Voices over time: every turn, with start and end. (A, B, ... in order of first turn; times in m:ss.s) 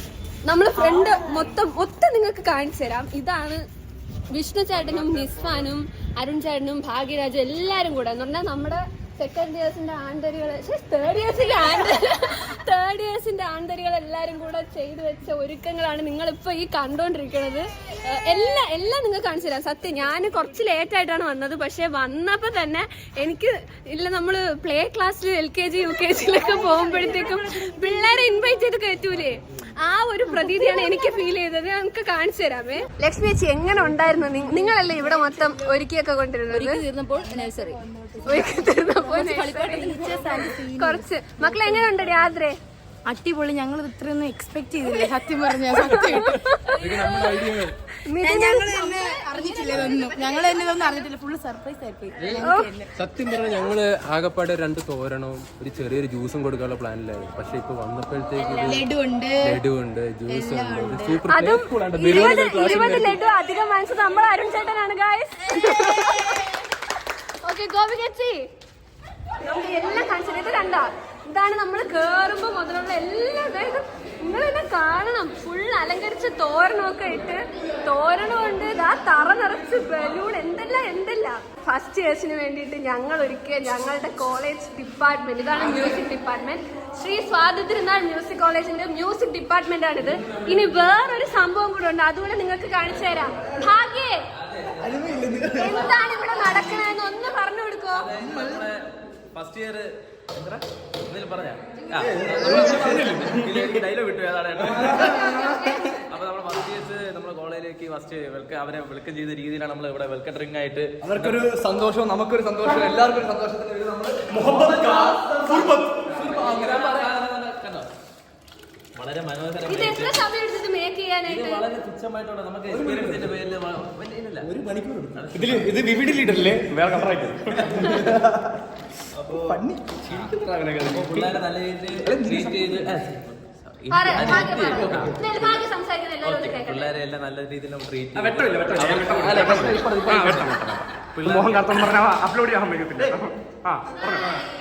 0:00.4-0:03.6 A
0:04.3-0:36.8 A
0:26.6-0:27.7 B
0:36.5-0:41.9 B
0:38.2-0:42.6 A
0:43.1-0:47.3 B
0:45.7-0:46.8 A
0:46.6-0:47.7 C
0:48.0-0:49.2 A
0:48.2-0:52.9 B
0:52.4-0:52.7 A
0:53.0-1:03.2 C
0:58.4-0:59.6 B
1:00.3-1:01.2 B
1:01.3-1:06.6 A
1:07.4-1:08.4 A
1:09.4-1:34.2 A
1:30.0-1:31.0 C
1:34.4-1:36.3 D
1:34.8-1:35.8 E
1:35.5-1:38.1 A
1:37.9-1:51.5 D
1:38.2-1:38.6 E
1:42.0-1:43.8 E
1:44.6-1:45.6 E
1:51.0-1:57.1 E
1:54.4-1:57.9 D
1:58.9-2:00.2 D
1:59.6-2:01.6 A
2:01.2-2:04.5 D
2:02.6-2:03.4 E
2:04.4-2:08.4 E
2:05.1-2:05.9 D
2:09.1-2:10.3 D
2:09.3-2:11.4 E
2:10.9-2:15.6 D
2:12.0-2:12.8 E
2:13.9-2:16.9 A
2:16.2-2:22.0 D
2:18.1-2:24.3 E
2:24.1-2:24.4 D